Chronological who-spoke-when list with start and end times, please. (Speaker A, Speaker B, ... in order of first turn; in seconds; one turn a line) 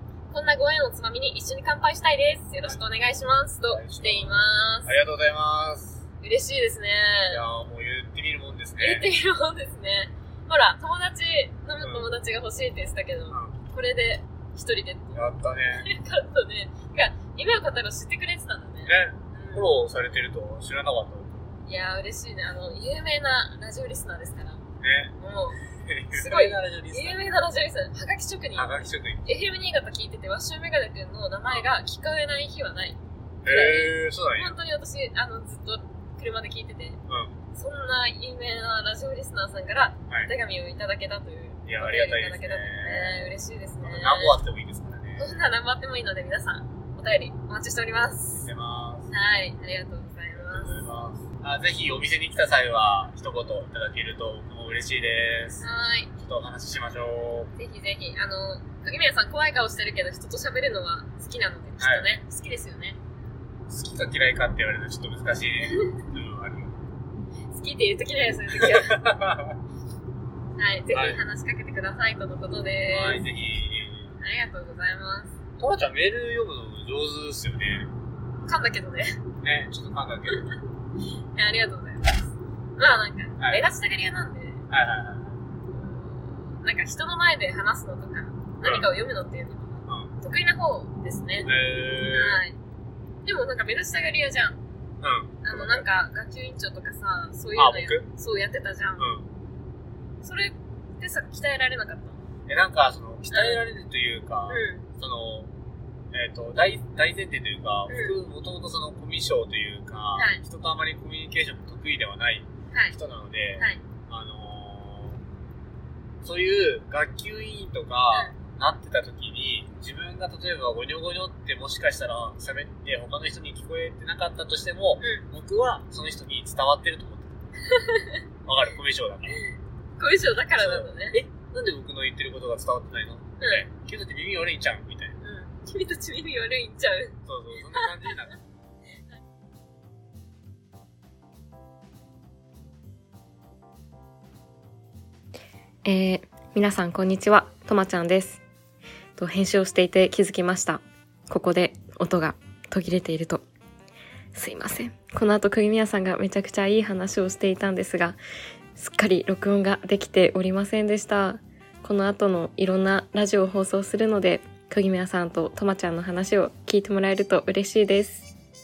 Speaker A: 0.3-4.9
Speaker B: 3.7-6.0
Speaker A: 6.2-7.4
Speaker B: 7.3-9.1
Speaker A: 8.8-15.2
Speaker B: 11.8-12.1
Speaker B: 13.3-13.6
Speaker B: 15.1-15.9
Speaker A: 15.7-19.7
Speaker B: 18.9-21.5
Speaker A: 21.7-24.6
Speaker B: 24.8-25.1
Speaker A: 25.2-25.6
Speaker B: 25.8-27.4
Speaker A: 26.1-28.7
Speaker B: 28.5-29.2
Speaker A: 29.2-37.0
Speaker B: 33.4-34.5
Speaker B: 37.1-37.4
Speaker A: 37.5-44.4
Speaker B: 41.6-45.4
Speaker A: 45.2-48.5
Speaker B: 48.3-49.1
Speaker A: 49.1-50.7
Speaker B: 50.4-55.6
Speaker A: 55.6-56.1
Speaker B: 56.2-57.5
Speaker A: 57.5-63.0
Speaker B: 61.8-62.1
Speaker B: 63.7-66.8
Speaker A: 67.5-69.0
Speaker B: 68.6-69.6
Speaker A: 70.6-73.2
Speaker B: 70.9-71.2
Speaker B: 72.9-74.2
Speaker A: 74.2-75.3
Speaker B: 75.6-77.9
Speaker A: 78.4-79.2
Speaker B: 79.4-80.5
Speaker A: 80.3-80.5
Speaker A: 81.3-84.6
Speaker B: 83.4-83.7
Speaker B: 84.7-85.4
Speaker A: 85.7-91.5
Speaker B: 88.6-88.9
Speaker B: 89.9-90.1
Speaker B: 91.5-92.4
Speaker A: 92.1-92.6
Speaker A: 93.2-94.6
Speaker B: 95.0-95.9
Speaker A: 95.4-99.0
Speaker B: 97.6-98.1
Speaker B: 99.0-99.3
Speaker A: 100.2-102.2
Speaker B: 102.5-105.5
Speaker A: 103.3-103.6
Speaker A: 104.5-104.8
Speaker B: 106.1-115.2
Speaker A: 107.9-108.2
Speaker A: 110.2-110.4
Speaker A: 112.7-113.0
Speaker B: 116.2-127.4
Speaker A: 127.6-128.2
Speaker B: 128.4-129.4
Speaker A: 129.3-131.2
Speaker B: 130.6-135.2
Speaker A: 133.4-133.7
Speaker A: 135.2-137.2
Speaker B: 137.2-138.4
Speaker C: 145.8-148.4
Speaker C: 149.2-153.4
Speaker C: 154.3-158.2
Speaker C: 158.7-168.3